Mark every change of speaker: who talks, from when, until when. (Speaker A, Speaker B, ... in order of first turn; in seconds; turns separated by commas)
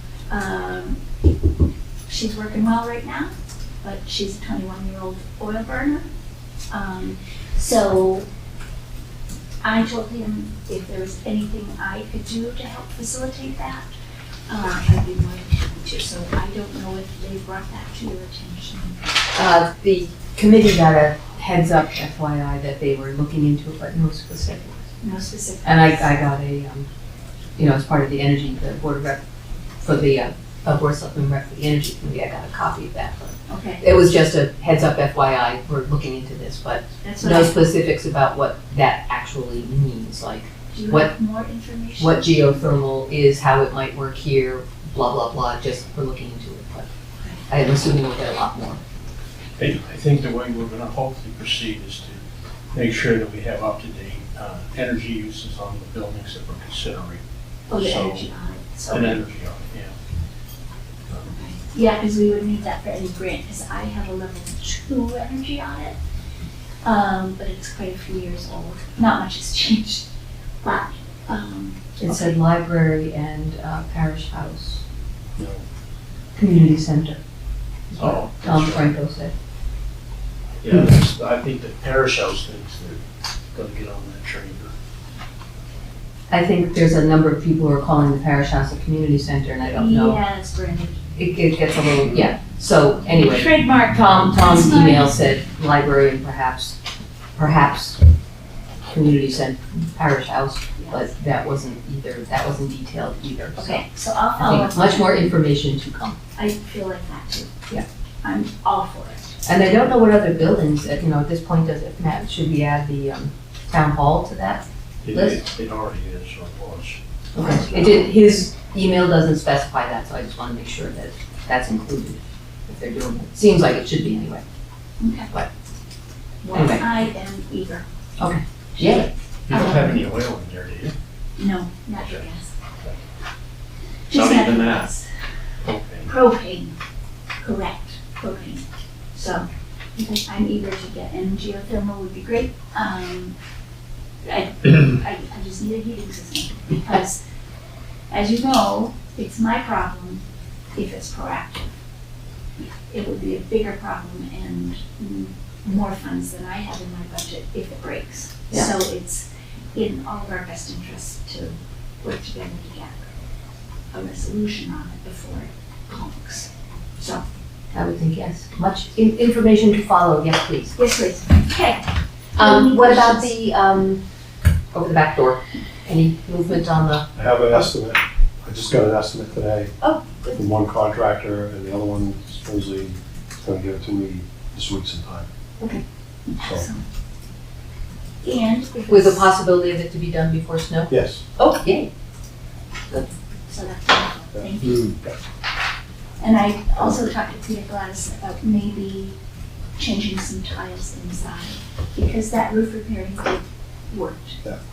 Speaker A: 0.3-1.0, Speaker A: 2.1-6.0, Speaker A: 6.7-8.3, Speaker A: 9.6-13.9, Speaker A: 14.5-19.1, Speaker B: 19.3-24.9, Speaker A: 25.0-26.2, Speaker B: 25.6-26.9, Speaker B: 27.6-29.2, Speaker B: 29.8-41.1, Speaker A: 33.5-33.8, Speaker A: 37.0-37.6, Speaker A: 40.7-42.6, Speaker B: 42.0-46.9, Speaker B: 47.5-48.8, Speaker C: 49.6-52.2, Speaker C: 52.7-57.2, Speaker A: 57.7-59.2, Speaker C: 57.7-58.3, Speaker C: 58.9-59.9, Speaker A: 61.3-66.0, Speaker A: 66.8-70.1, Speaker A: 70.6-72.4, Speaker B: 72.0-74.8, Speaker C: 75.4-75.6, Speaker B: 76.3-77.2, Speaker B: 77.9-79.3, Speaker C: 78.0-79.0, Speaker C: 80.6-83.0, Speaker C: 83.5-84.7, Speaker B: 86.3-90.2, Speaker A: 89.7-91.0, Speaker B: 91.2-96.8, Speaker A: 93.1-95.2, Speaker B: 97.3-98.0, Speaker B: 98.9-103.8, Speaker A: 100.8-101.0, Speaker A: 103.5-105.3, Speaker B: 104.4-106.2, Speaker A: 106.3-107.5, Speaker A: 108.2-109.3, Speaker B: 109.5-115.4, Speaker C: 115.0-117.0, Speaker B: 117.3-124.4, Speaker A: 117.3-118.0, Speaker A: 125.0-125.3, Speaker A: 126.4-127.8, Speaker B: 126.5-127.0, Speaker B: 128.2-129.1, Speaker A: 128.7-129.8, Speaker C: 129.5-130.9, Speaker A: 131.4-132.5, Speaker A: 134.1-135.0, Speaker C: 134.1-134.9, Speaker C: 135.6-136.1, Speaker A: 136.1-136.8, Speaker A: 137.4-139.4, Speaker A: 140.0-143.3, Speaker A: 144.2-147.2, Speaker A: 148.1-150.2, Speaker A: 150.7-151.7, Speaker A: 152.9-163.1, Speaker A: 163.9-167.2, Speaker B: 167.7-170.8, Speaker A: 170.8-173.3, Speaker B: 172.3-174.0, Speaker B: 174.7-177.1, Speaker D: 177.1-179.7, Speaker B: 179.8-180.4, Speaker D: 180.3-185.3, Speaker A: 186.3-186.8, Speaker D: 186.4-186.7, Speaker A: 188.2-189.3, Speaker B: 188.9-191.9, Speaker D: 190.9-191.2, Speaker A: 193.5-194.9, Speaker D: 194.3-195.1, Speaker A: 196.2-199.2, Speaker A: 199.8-204.4